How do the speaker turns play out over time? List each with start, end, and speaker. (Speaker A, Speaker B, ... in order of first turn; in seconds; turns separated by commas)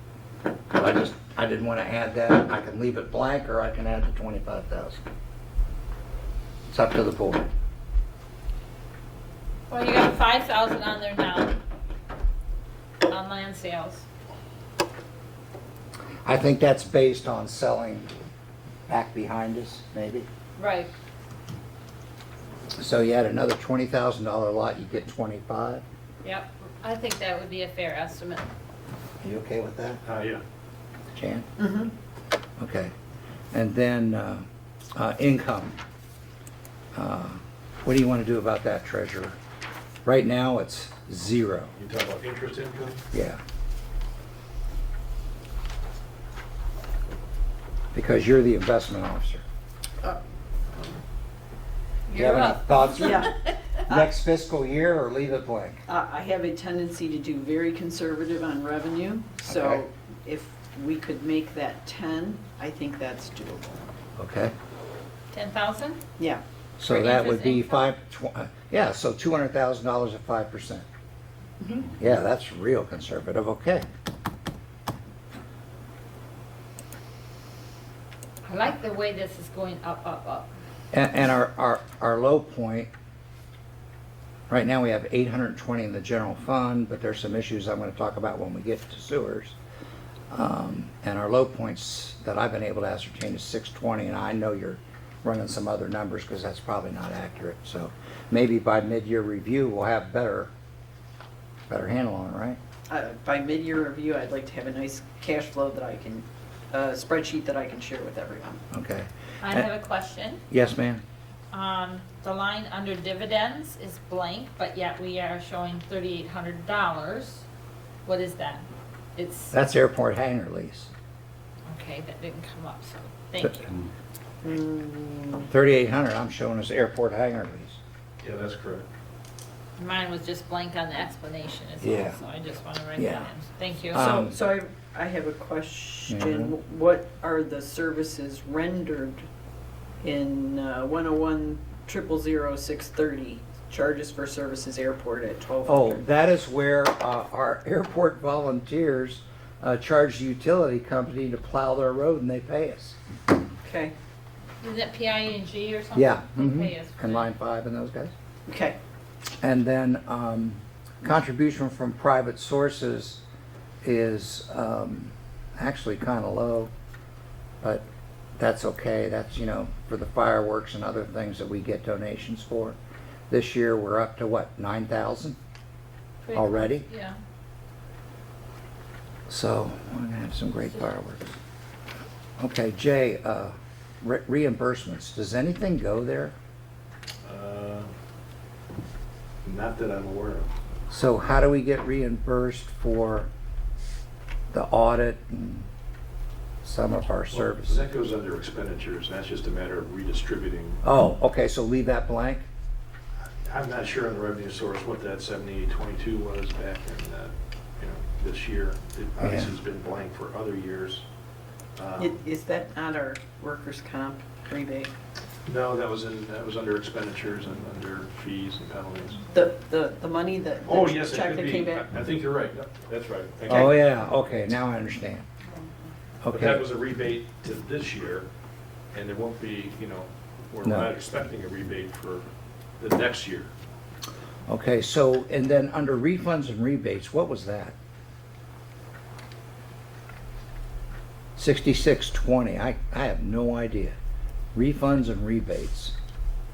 Speaker A: 0.7-5.0, Speaker A: 6.7-7.5, Speaker B: 9.7-11.6, Speaker B: 13.0-14.0, Speaker A: 16.2-18.1, Speaker A: 18.9-20.3, Speaker B: 20.6-20.9, Speaker A: 22.8-25.8, Speaker B: 26.2-28.5, Speaker A: 29.2-30.0, Speaker C: 30.0-30.4, Speaker A: 31.1-31.5, Speaker D: 31.6-31.9, Speaker A: 32.6-32.9, Speaker A: 33.5-35.8, Speaker A: 36.9-39.4, Speaker A: 40.0-41.7, Speaker C: 41.8-43.0, Speaker A: 43.1-43.4, Speaker A: 47.9-49.4, Speaker B: 52.1-53.6, Speaker A: 52.1-53.3, Speaker D: 53.0-53.3, Speaker A: 53.9-55.8, Speaker D: 55.9-63.8, Speaker A: 59.4-59.8, Speaker A: 64.2-64.5, Speaker B: 65.3-66.0, Speaker D: 66.2-66.4, Speaker A: 66.8-70.8, Speaker B: 66.8-67.9, Speaker A: 71.9-73.9, Speaker B: 78.4-80.5, Speaker A: 80.9-82.9, Speaker A: 84.5-89.6, Speaker A: 90.3-100.5, Speaker A: 101.7-102.6, Speaker D: 102.9-108.6, Speaker A: 108.7-109.7, Speaker B: 109.4-110.4, Speaker A: 110.5-111.0, Speaker B: 111.5-117.4, Speaker B: 118.0-119.5, Speaker A: 119.5-120.9, Speaker B: 121.7-123.7, Speaker D: 124.4-125.5, Speaker A: 125.5-127.8, Speaker C: 128.2-128.9, Speaker B: 129.8-134.3, Speaker A: 131.8-132.2, Speaker A: 133.0-133.3, Speaker A: 133.9-134.3, Speaker D: 134.3-139.2, Speaker A: 136.1-136.5, Speaker D: 140.0-146.0, Speaker A: 145.7-153.0, Speaker D: 153.6-153.9, Speaker B: 154.6-157.3, Speaker A: 155.9-158.1, Speaker D: 158.5-158.8, Speaker A: 159.4-163.2, Speaker A: 163.8-166.7, Speaker A: 167.6-167.9, Speaker A: 168.4-172.8, Speaker A: 173.3-175.4, Speaker B: 176.2-177.2, Speaker A: 176.3-176.8, Speaker A: 179.3-181.3, Speaker A: 182.4-186.3, Speaker C: 187.2-187.9, Speaker C: 189.4-190.5, Speaker A: 190.9-193.3, Speaker A: 194.5-195.7, Speaker A: 196.6-197.8, Speaker C: 197.3-200.8, Speaker A: 200.8-202.4, Speaker C: 203.4-211.0, Speaker A: 209.2-209.5, Speaker C: 211.8-212.2, Speaker D: 212.0-214.9, Speaker C: 215.4-219.2, Speaker D: 219.3-221.8, Speaker C: 220.7-223.8, Speaker A: 223.5-225.2, Speaker A: 226.2-226.6, Speaker C: 226.3-228.3, Speaker C: 228.9-232.3, Speaker A: 230.6-230.9, Speaker C: 232.8-233.5, Speaker A: 234.5-237.7, Speaker A: 241.3-243.9, Speaker A: 244.5-245.9